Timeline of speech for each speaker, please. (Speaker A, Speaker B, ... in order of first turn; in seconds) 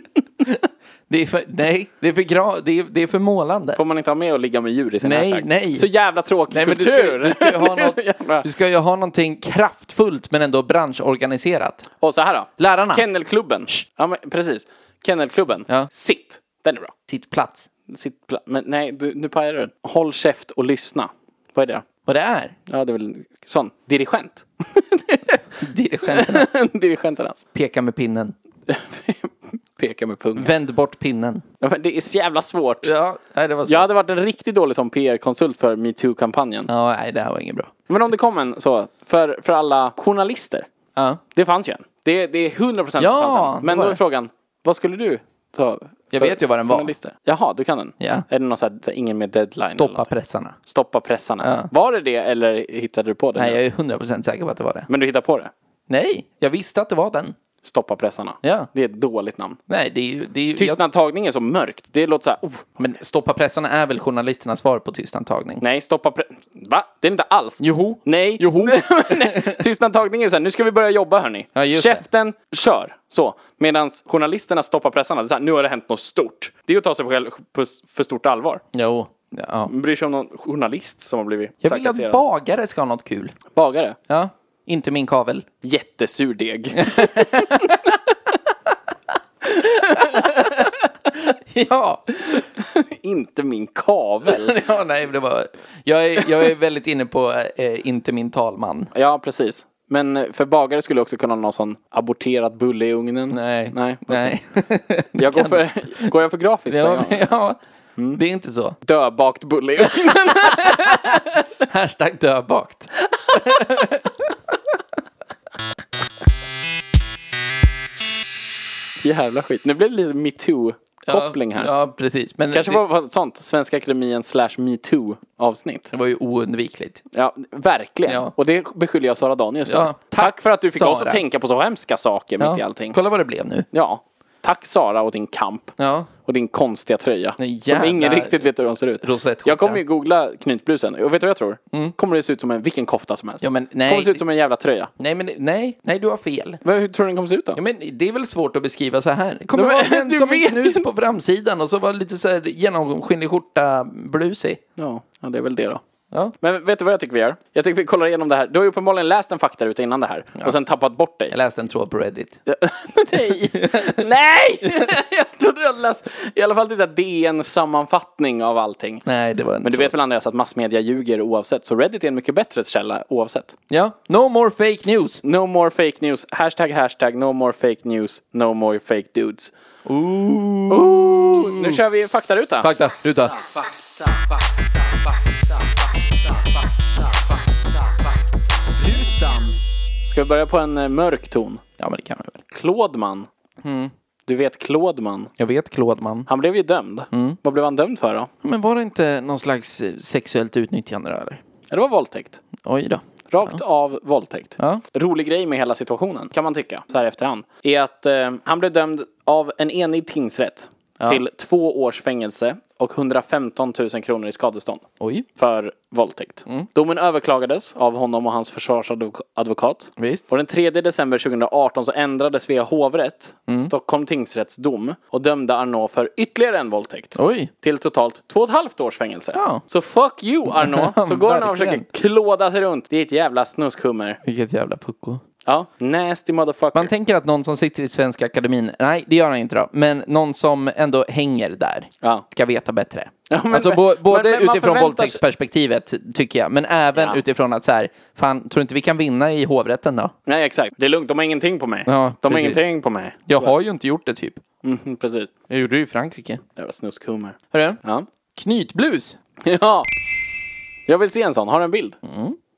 Speaker A: 0.4-3.8, 5.0-5.9, 6.5-11.9, 12.6-13.0, 17.1-17.7, 22.1-22.5, 25.6-26.5, 27.5-28.3, 30.4-31.4, 32.8-33.9, 36.7-37.7, 41.0-41.2, 43.0-44.0, 46.1-46.9, 48.0-48.2, 49.7-50.6, 51.4-51.7, 53.4-54.9, 55.9-57.4, 58.4-58.7, 59.7-60.8, 62.8-65.6, 67.6-69.6, 71.5-72.0, 78.7-79.7, 81.6-83.3, 84.1-85.5, 86.8-88.0, 89.6-92.4, 94.2-98.9, 103.3-106.1, 106.7-107.6, 108.1-108.8, 109.8-114.5, 121.1-122.8, 125.9-127.0, 128.1-128.3, 129.7-131.2, 132.4-133.7, 135.8-136.1, 137.4-138.5, 139.0-139.8, 143.4-144.2, 145.0-146.6, 147.6-154.6, 161.3-162.4, 163.3-164.0, 169.1-169.9, 173.7-175.2, 179.8-181.8, 182.6-183.5, 191.8-192.4, 193.6-193.9, 195.4-196.3, 197.1-197.4, 198.4-201.4, 202.6-203.6, 204.6-204.8, 215.0-215.2, 220.0-220.2, 227.2-227.5, 229.3-229.6, 230.5-231.8, 234.2-235.2, 236.7-250.1, 251.8-252.6, 253.3-254.4, 255.5-256.4, 257.5-257.8, 258.4-259.2, 262.0-262.4
Speaker B: 3.7-8.5, 12.0-16.9, 17.9-21.9, 22.7-25.2, 26.1-27.4, 28.7-30.5, 31.6-32.9, 33.6-36.7, 37.9-40.7, 41.3-50.1, 50.6-53.6, 54.9-55.5, 57.6-59.6, 60.5-62.7, 65.6-78.6, 79.7-82.2, 83.5-84.0, 85.6-87.8, 89.8-90.6, 92.6-94.6, 98.9-104.4, 105.2-107.3, 108.8-111.3, 119.0-121.7, 122.5-125.9, 127.1-133.0, 133.7-144.9, 146.6-147.6, 149.5-150.9, 154.8-155.8, 156.4-161.3, 162.5-169.1, 169.6-173.6, 175.2-179.5, 180.7-182.7, 183.3-184.4, 188.8-189.6, 190.1-191.6, 192.5-193.3, 194.2-195.3, 196.3-198.3, 201.7-202.4, 203.3-214.8, 215.3-234.2, 235.4-236.9, 243.3-245.2, 250.2-253.5, 254.6-255.3, 256.6-258.1, 259.4-259.9, 260.9-262.0